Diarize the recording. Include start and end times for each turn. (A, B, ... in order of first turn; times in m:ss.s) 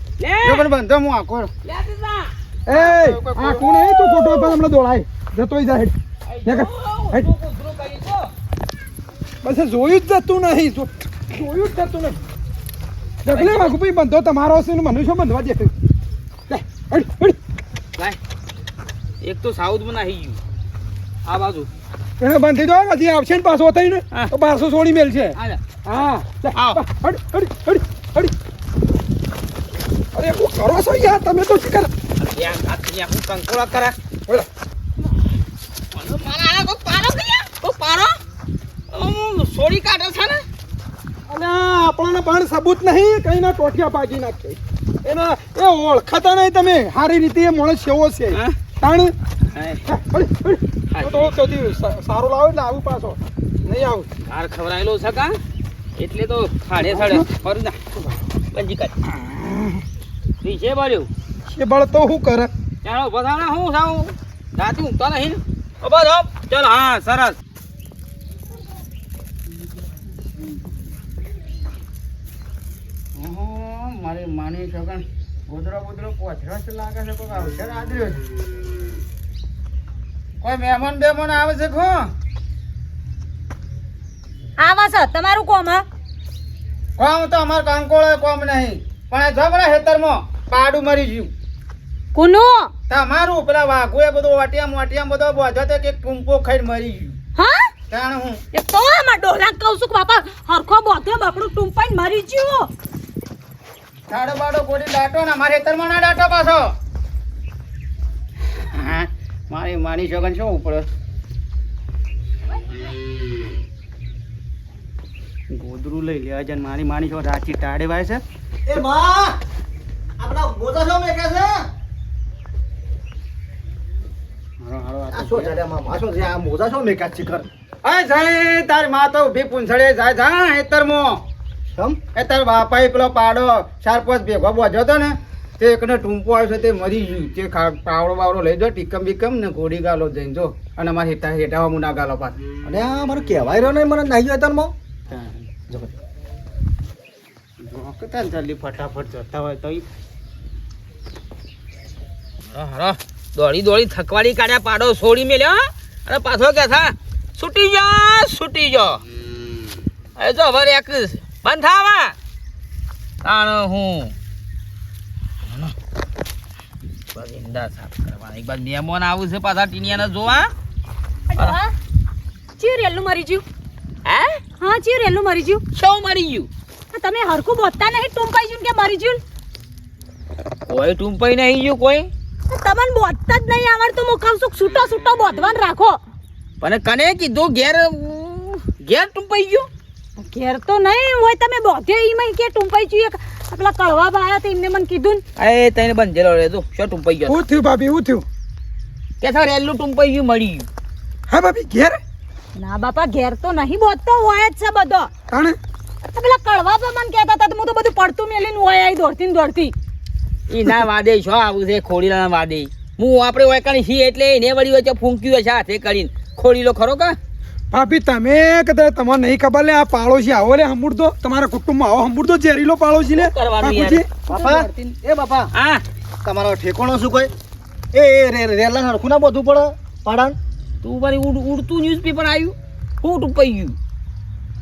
0:00.2-0:00.7 A
0:00.4-0:01.5 B
0:01.6-0:02.3 A
0:02.7-0:05.9 C
0:02.7-0:03.6 B
0:03.6-0:04.6 A
0:06.3-0:08.3 A
0:06.4-0:07.2 C
0:09.4-0:12.2 C
0:13.2-0:15.7 C
0:13.3-0:13.7 A
0:16.5-0:17.4 C
0:19.2-0:20.4 A
0:21.2-0:21.7 A
0:22.2-0:28.3 C
0:26.5-0:26.8 A
0:30.1-0:31.9 C
0:32.2-0:33.9 A
0:35.9-0:38.1 A
0:38.9-0:40.4 A
0:41.3-0:49.1 C
0:49.5-0:49.8 A
0:49.9-0:54.1 C
0:50.9-0:51.3 A
0:54.3-0:55.4 A
0:56.0-0:57.8 A
0:56.9-0:57.3 C
0:58.5-0:58.9 A
0:59.2-0:59.8 C
1:00.4-1:01.1 A
1:01.5-1:02.5 C
1:02.8-1:07.4 A
1:13.1-1:18.2 B
1:20.4-1:22.1 B
1:24.6-1:25.8 D
1:27.0-1:31.3 B
1:32.1-1:32.7 D
1:32.9-1:37.2 B
1:37.4-1:37.7 D
1:37.9-1:38.4 B
1:38.5-1:42.7 D
1:44.1-1:46.7 B
1:48.6-1:50.9 B
1:55.5-1:58.2 B
1:58.7-1:59.4 E
2:00.2-2:01.7 E
2:04.6-2:05.5 B
2:05.1-2:07.5 E
2:07.8-2:11.2 B
2:11.7-2:12.0 E
2:12.1-2:22.4 B
2:22.6-2:24.7 E
2:25.1-2:25.4 B
2:27.6-2:29.8 B
2:32.5-2:39.0 A
2:40.2-2:42.1 A
2:43.2-2:44.1 A
2:45.5-2:45.7 A
2:47.1-2:50.5 A
2:51.3-2:51.7 D
2:52.6-2:53.4 D
2:54.0-2:54.4 A
2:54.6-2:55.6 D
2:55.7-2:56.5 A
2:56.9-2:59.2 D
3:00.7-3:02.1 A
3:02.5-3:06.0 D
3:06.6-3:09.7 A
3:10.2-3:15.2 D
3:15.4-3:17.4 A
3:17.3-3:18.2 C
3:19.2-3:20.7 A
3:21.3-3:22.0 C
3:22.6-3:25.1 D
3:25.3-3:25.6 C
3:26.1-3:29.7 D
3:30.5-3:37.2 A
3:37.7-3:44.1 C
3:43.1-3:44.0 A
3:44.3-3:45.5 E
3:44.3-3:44.9 D
3:45.5-3:45.8 A
3:46.2-3:47.3 E
3:47.9-3:50.4 E
3:50.8-3:53.8 A